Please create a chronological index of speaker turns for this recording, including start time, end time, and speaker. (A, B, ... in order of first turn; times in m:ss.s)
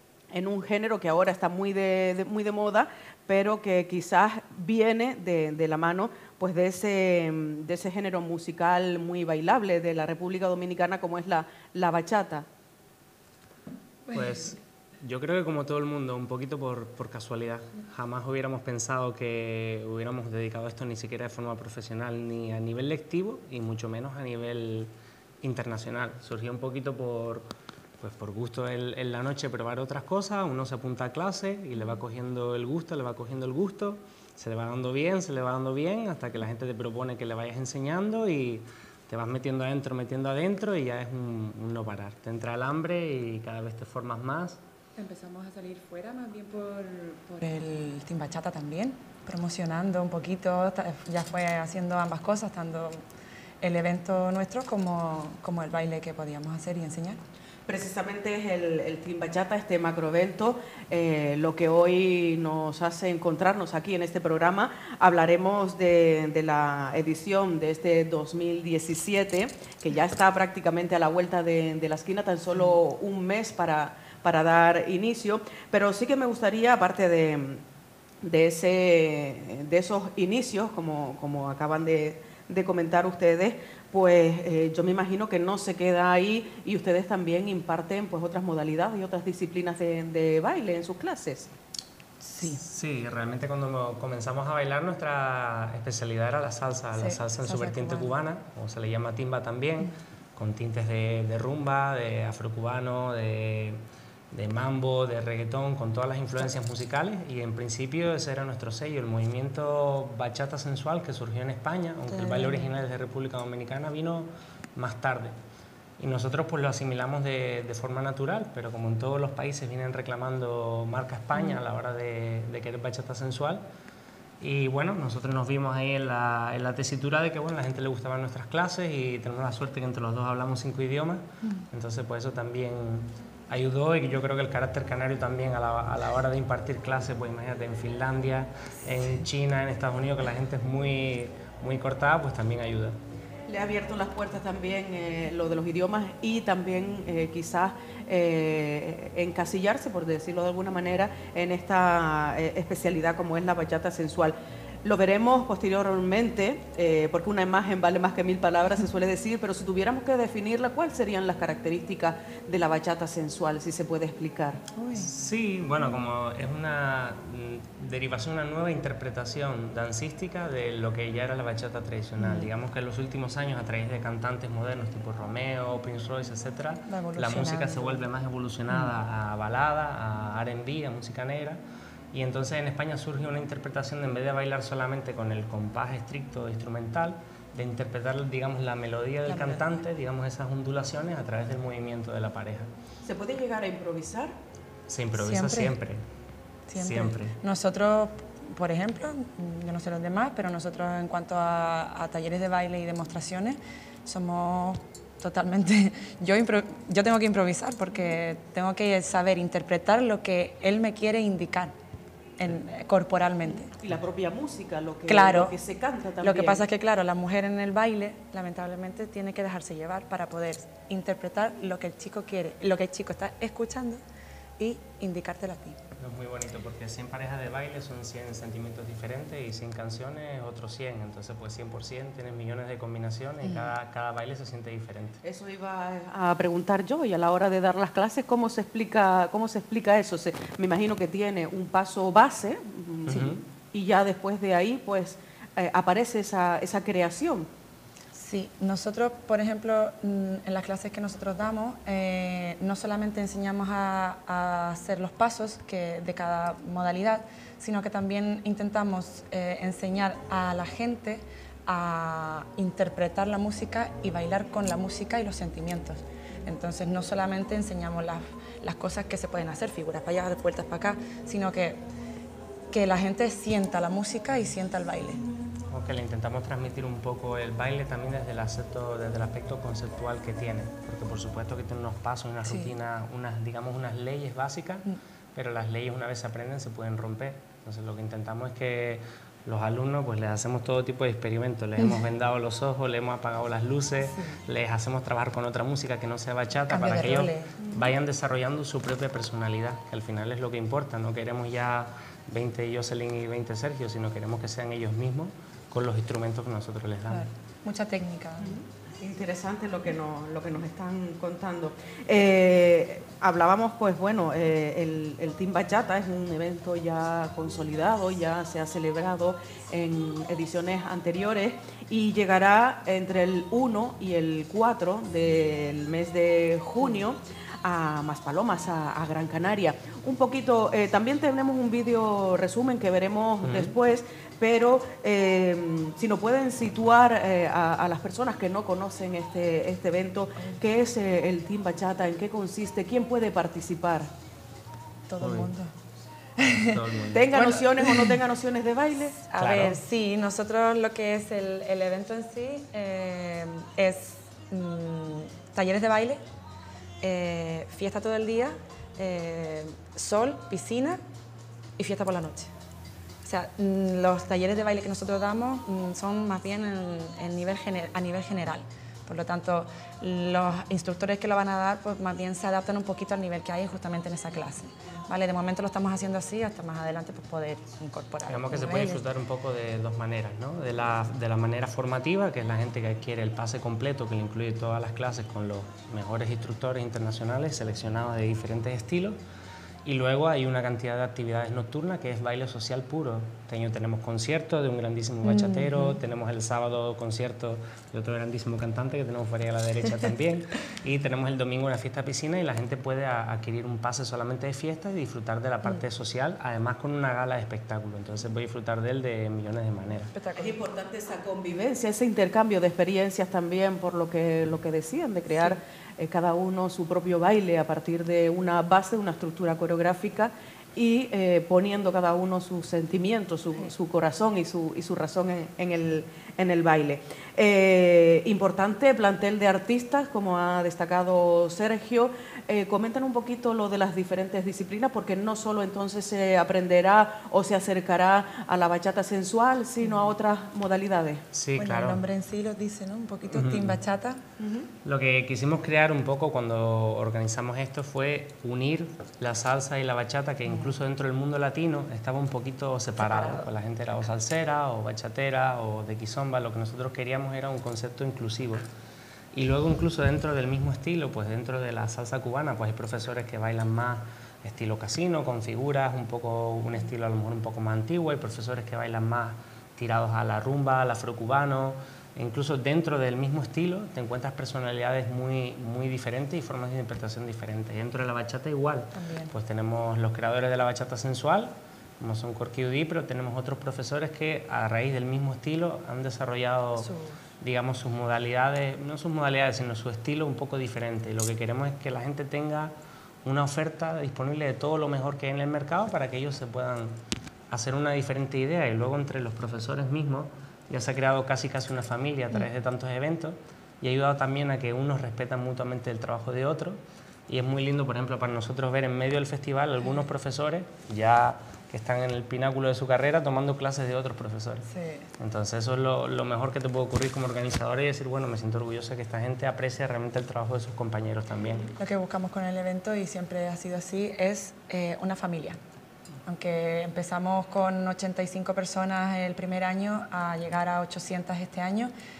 0:00.3-0:12.4 A
0:14.1-0:44.6 B
0:45.0-0:53.0 C
0:53.6-0:57.2 C
0:57.7-1:17.6 A
1:18.2-1:31.5 A
1:32.2-1:32.6 C
1:32.4-1:43.8 B
1:36.9-1:38.2 C
1:44.3-1:55.4 B
1:52.1-1:52.8 C
1:56.0-2:03.6 B
2:01.3-2:01.6 C
2:04.4-2:23.0 B
2:23.5-2:44.6 A
2:44.7-2:45.1 C
2:44.9-3:01.6 B
2:52.2-2:52.5 C
2:56.9-2:58.0 C
3:02.1-3:12.7 B
3:09.2-3:09.8 C
3:13.0-3:14.3 A
3:14.9-3:16.0 B
3:15.2-3:15.8 C
3:16.7-3:31.7 C
3:16.8-3:17.4 B
3:32.4-3:33.7 C
3:33.7-3:36.6 A
3:35.1-3:35.6 C
3:36.2-3:44.0 C
3:44.6-3:45.8 C
3:46.0-3:55.2 B
3:53.4-3:53.7 C
3:55.2-4:07.5 A
4:03.1-4:03.4 B
4:08.1-4:31.8 C
4:32.7-4:35.2 C
4:35.7-5:07.3 B
4:42.4-4:42.8 C
4:54.0-4:54.4 C
4:56.7-4:57.6 C
5:07.1-5:08.6 C
5:08.4-5:44.1 A
5:33.4-5:33.7 B
5:45.1-5:45.7 C
5:45.2-5:45.5 B
5:46.4-5:46.8 C
5:46.5-5:47.6 B
5:47.1-5:49.2 A
5:47.4-5:48.2 C
5:49.2-5:56.2 C
5:49.4-5:49.8 B
5:57.0-6:01.0 C
6:01.8-6:02.5 C
6:03.2-6:19.0 C
6:18.3-6:29.2 B
6:29.8-6:50.1 B
6:35.2-6:36.0 C
6:50.1-6:50.6 C
6:50.4-7:21.2 A
7:19.8-7:20.1 C
7:21.3-7:22.0 B
7:21.6-7:24.2 C
7:23.3-7:23.8 B
7:24.4-7:24.7 A
7:24.8-7:38.6 B
7:30.5-7:30.7 C
7:33.0-7:33.4 C
7:39.3-8:06.9 B
7:58.9-7:59.3 C
8:06.8-8:07.2 C
8:07.4-8:12.7 B
8:13.2-8:17.0 B
8:17.5-8:34.7 B
8:34.6-8:35.1 C
8:35.2-8:41.7 B
8:41.8-8:45.6 C
8:46.2-8:51.9 C